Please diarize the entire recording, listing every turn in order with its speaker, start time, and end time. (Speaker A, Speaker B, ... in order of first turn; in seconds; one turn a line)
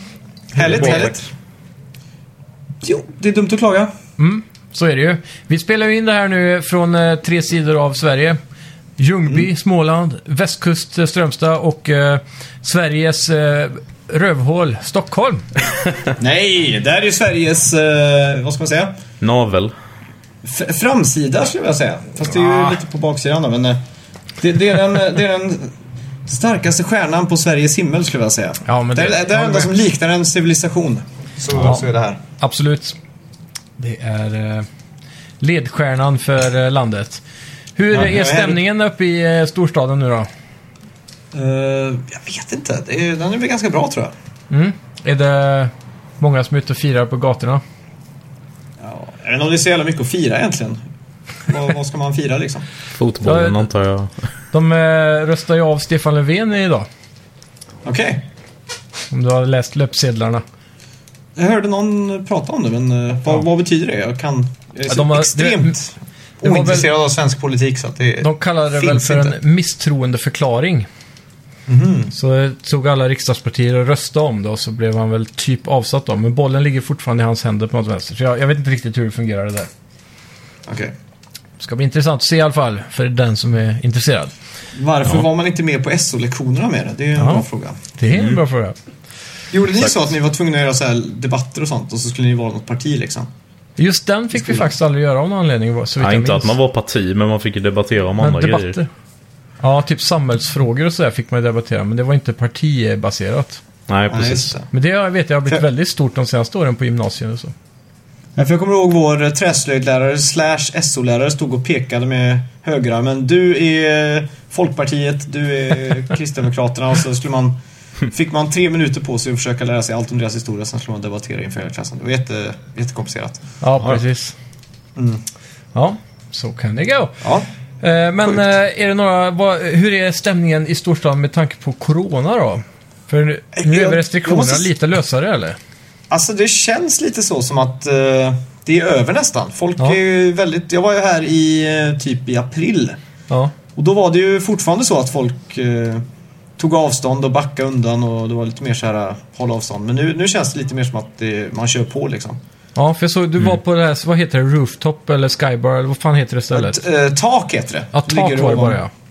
Speaker A: 0.5-1.3
Speaker B: 0.6-1.1
Speaker C: 0.6-1.1
Speaker A: 2.8-3.9
Speaker C: 4.2-8.4
Speaker C: 9.0-15.5
Speaker A: 16.2-19.0
Speaker B: 19.2-19.7
Speaker A: 20.4-23.8
Speaker C: 22.3-22.8
Speaker A: 24.4-25.7
Speaker A: 26.2-32.2
Speaker C: 28.6-29.7
Speaker C: 32.4-33.0
Speaker C: 33.8-34.7
Speaker C: 35.4-37.2
Speaker C: 37.8-40.3
Speaker A: 37.9-38.6
Speaker A: 41.3-44.1
Speaker C: 44.5-47.6
Speaker A: 48.8-50.8
Speaker A: 51.5-52.6
Speaker B: 53.0-54.2
Speaker C: 53.2-53.6
Speaker C: 54.5-56.9
Speaker A: 57.8-58.2
Speaker C: 59.1-60.4
Speaker A: 61.4-69.4
Speaker C: 64.9-65.8
Speaker C: 66.4-66.9
Speaker C: 68.2-70.9
Speaker A: 71.7-72.1
Speaker C: 72.1-79.7
Speaker A: 80.7-80.9
Speaker C: 81.6-84.3
Speaker A: 84.7-87.8
Speaker C: 87.2-88.8
Speaker B: 88.1-88.4
Speaker A: 89.5-93.3
Speaker C: 93.8-96.5
Speaker B: 96.0-98.8
Speaker C: 98.2-98.9
Speaker C: 99.6-103.6
Speaker B: 103.9-104.5
Speaker A: 104.1-104.7
Speaker C: 104.7-107.5
Speaker A: 108.3-117.5
Speaker A: 118.1-123.4
Speaker C: 123.6-124.3
Speaker A: 125.0-125.2
Speaker C: 125.7-127.2
Speaker A: 127.2-127.5
Speaker C: 127.8-135.6
Speaker A: 133.5-134.7
Speaker A: 136.1-143.0
Speaker A: 143.7-146.0
Speaker A: 146.6-152.4
Speaker C: 152.8-156.8
Speaker A: 156.5-158.8
Speaker C: 157.9-158.9